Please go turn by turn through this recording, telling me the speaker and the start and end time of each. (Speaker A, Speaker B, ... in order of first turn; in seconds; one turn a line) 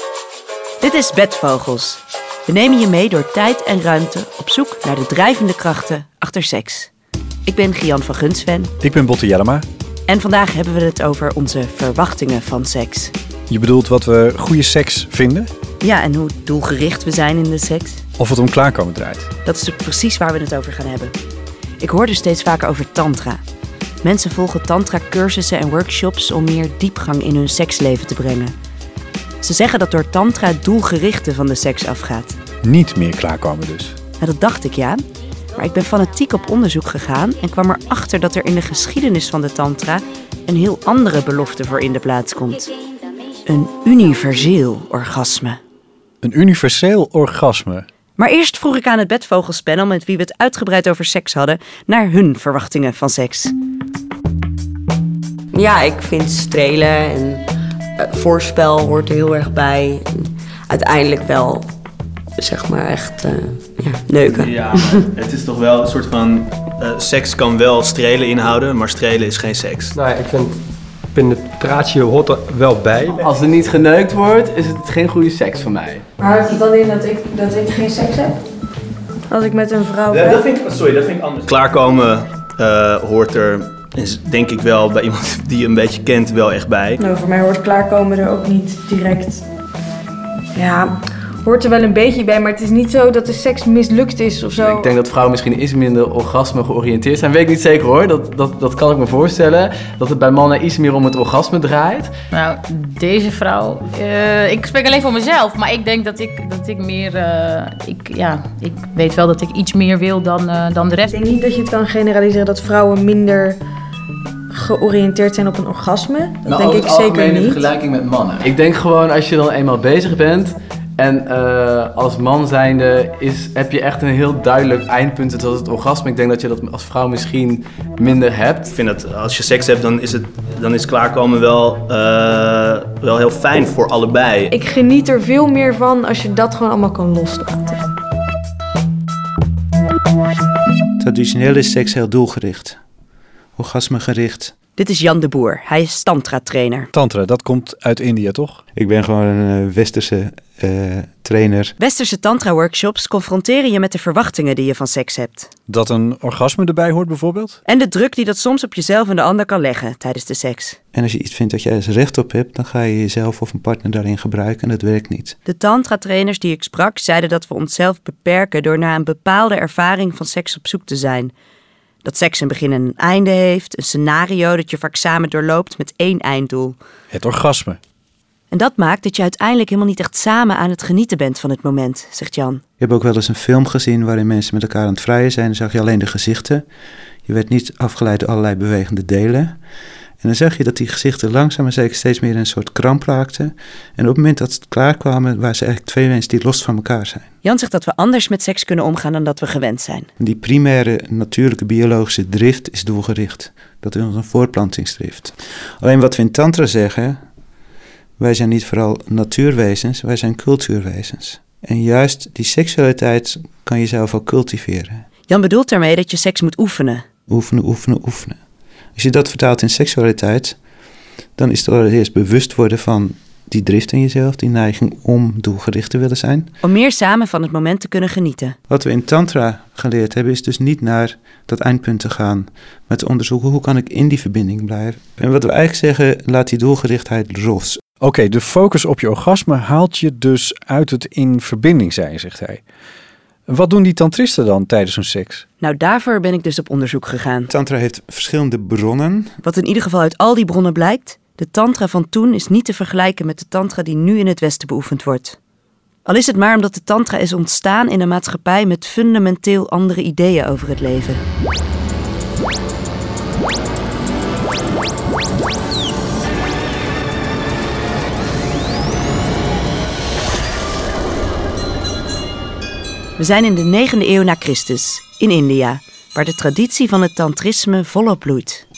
Speaker A: 0.8-6.9
Speaker A: 7.5-8.7
Speaker B: 8.8-9.7
Speaker A: 10.1-13.1
Speaker B: 13.5-15.5
Speaker A: 15.8-18.0
Speaker B: 18.2-19.3
Speaker A: 19.4-21.1
Speaker A: 21.8-23.4
Speaker A: 24.0-28.6
Speaker A: 29.4-32.4
Speaker B: 32.6-34.0
Speaker A: 34.2-35.0
Speaker A: 35.6-42.7
Speaker A: 43.5-45.6
Speaker B: 46.2-47.9
Speaker A: 48.2-53.5
Speaker C: 55.5-57.4
Speaker C: 58.0-61.7
Speaker C: 62.4-65.1
Speaker D: 64.4-70.0
Speaker E: 70.0-70.6
Speaker E: 71.2-73.2
Speaker F: 73.2-76.0
Speaker G: 76.2-78.4
Speaker G: 79.3-80.4
Speaker D: 80.1-87.0
Speaker G: 87.0-89.4
Speaker G: 90.5-94.9
Speaker F: 94.5-102.2
Speaker H: 102.3-111.2
Speaker G: 111.1-113.6
Speaker G: 114.5-117.7
Speaker F: 116.5-128.8
Speaker D: 128.7-134.5
Speaker G: 134.5-137.8
Speaker I: 141.0-142.8
Speaker I: 143.6-144.5
Speaker A: 144.8-146.9
Speaker B: 146.9-148.6
Speaker I: 148.8-151.8
Speaker A: 151.8-155.5
Speaker B: 155.7-157.6
Speaker A: 157.7-160.8
Speaker I: 160.9-165.4
Speaker A: 165.5-171.3
Speaker A: 172.0-176.8
Speaker B: 177.1-177.8
Speaker A: 178.5-182.6
Speaker I: 182.8-186.6
Speaker I: 187.3-189.6
Speaker I: 190.2-197.2
Speaker A: 197.4-200.1
Speaker I: 200.2-207.2
Speaker I: 208.2-215.0
Speaker A: 215.3-217.0
Speaker I: 217.3-218.4
Speaker I: 219.0-220.6
Speaker I: 221.4-226.5
Speaker A: 226.6-228.6
Speaker I: 228.7-237.8
Speaker B: 238.0-242.6
Speaker B: 243.5-245.4
Speaker A: 245.6-247.5
Speaker I: 247.5-249.3
Speaker A: 249.4-255.4
Speaker A: 256.1-261.2
Speaker A: 273.2-278.6